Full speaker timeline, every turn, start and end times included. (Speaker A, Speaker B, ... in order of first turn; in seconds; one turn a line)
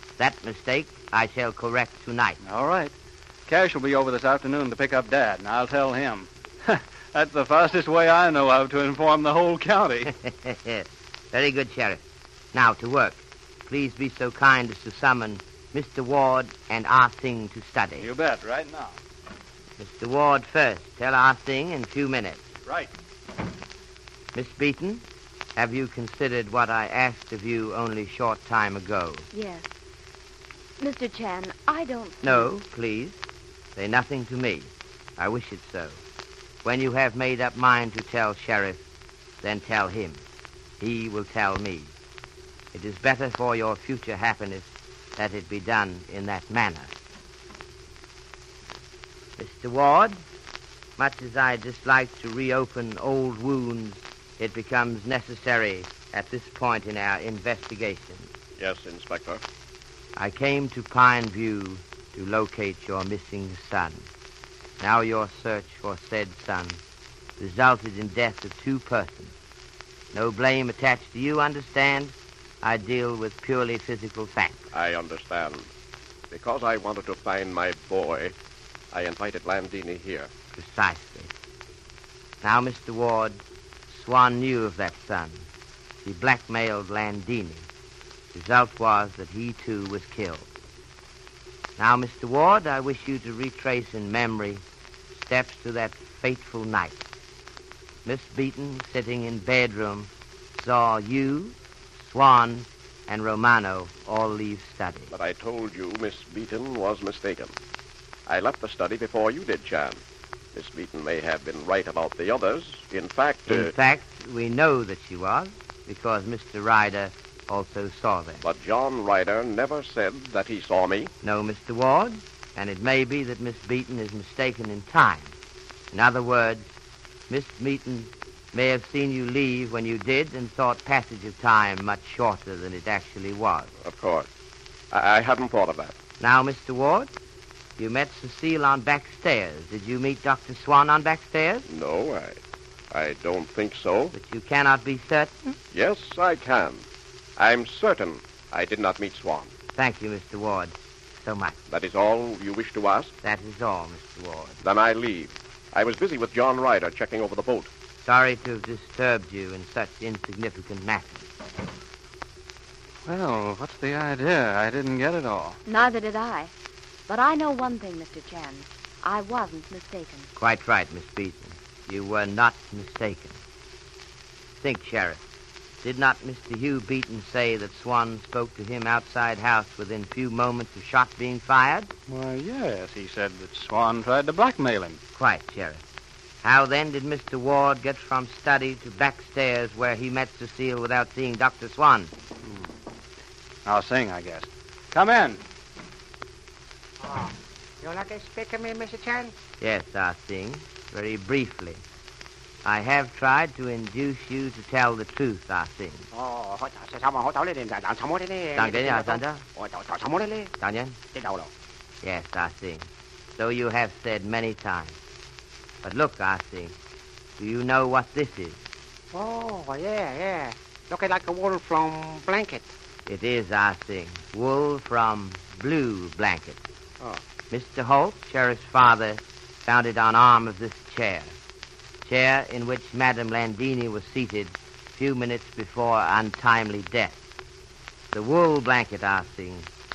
Speaker A: 0.2-2.4
Speaker B: 2.4-2.9
Speaker B: 3.5-10.1
Speaker A: 10.2-12.0
Speaker A: 12.5-18.1
Speaker B: 18.0-18.9
Speaker A: 19.8-22.4
Speaker A: 24.3-25.0
Speaker A: 25.6-29.2
Speaker C: 29.3-29.6
Speaker C: 30.8-32.5
Speaker A: 32.2-33.2
Speaker A: 33.8-36.0
Speaker A: 36.6-38.8
Speaker A: 39.4-40.2
Speaker A: 40.8-41.9
Speaker A: 42.7-46.9
Speaker A: 49.4-50.2
Speaker A: 51.0-58.3
Speaker D: 58.6-59.4
Speaker A: 60.1-64.0
Speaker A: 64.8-66.8
Speaker A: 67.4-69.3
Speaker A: 70.1-74.6
Speaker D: 74.7-75.7
Speaker D: 76.3-78.3
Speaker D: 78.9-80.3
Speaker A: 80.5-81.3
Speaker A: 82.4-85.5
Speaker A: 86.0-87.7
Speaker A: 88.3-90.5
Speaker A: 91.8-94.6
Speaker A: 95.1-97.0
Speaker A: 98.0-105.1
Speaker D: 105.1-107.5
Speaker D: 108.3-110.0
Speaker D: 110.5-113.7
Speaker A: 113.5-118.4
Speaker D: 118.4-121.1
Speaker A: 121.2-125.3
Speaker A: 125.9-126.7
Speaker A: 127.3-133.7
Speaker D: 133.8-134.3
Speaker D: 134.9-135.9
Speaker A: 136.2-137.1
Speaker A: 137.8-141.6
Speaker D: 141.7-142.4
Speaker D: 142.9-144.1
Speaker A: 144.1-145.6
Speaker D: 145.7-146.8
Speaker D: 147.4-149.5
Speaker A: 149.8-151.6
Speaker D: 151.7-153.1
Speaker A: 153.2-154.6
Speaker D: 154.6-157.7
Speaker A: 158.0-161.3
Speaker B: 163.1-165.6
Speaker C: 165.7-166.5
Speaker C: 167.1-170.3
Speaker A: 170.3-173.4
Speaker A: 174.6-175.2
Speaker A: 175.8-181.9
Speaker B: 182.1-185.0
Speaker A: 185.2-185.8
Speaker A: 186.4-192.1
Speaker B: 193.6-195.4
Speaker E: 197.0-199.3
Speaker A: 199.6-201.8
Speaker A: 202.6-206.0
Speaker E: 206.1-210.5
Speaker A: 208.6-209.4
Speaker A: 210.6-211.0
Speaker E: 211.1-211.5
Speaker A: 212.0-215.0
Speaker A: 215.8-216.7
Speaker A: 217.4-218.6
Speaker E: 219.1-222.7
Speaker A: 223.1-226.6
Speaker A: 227.5-231.3
Speaker A: 232.0-237.2
Speaker A: 238.1-239.7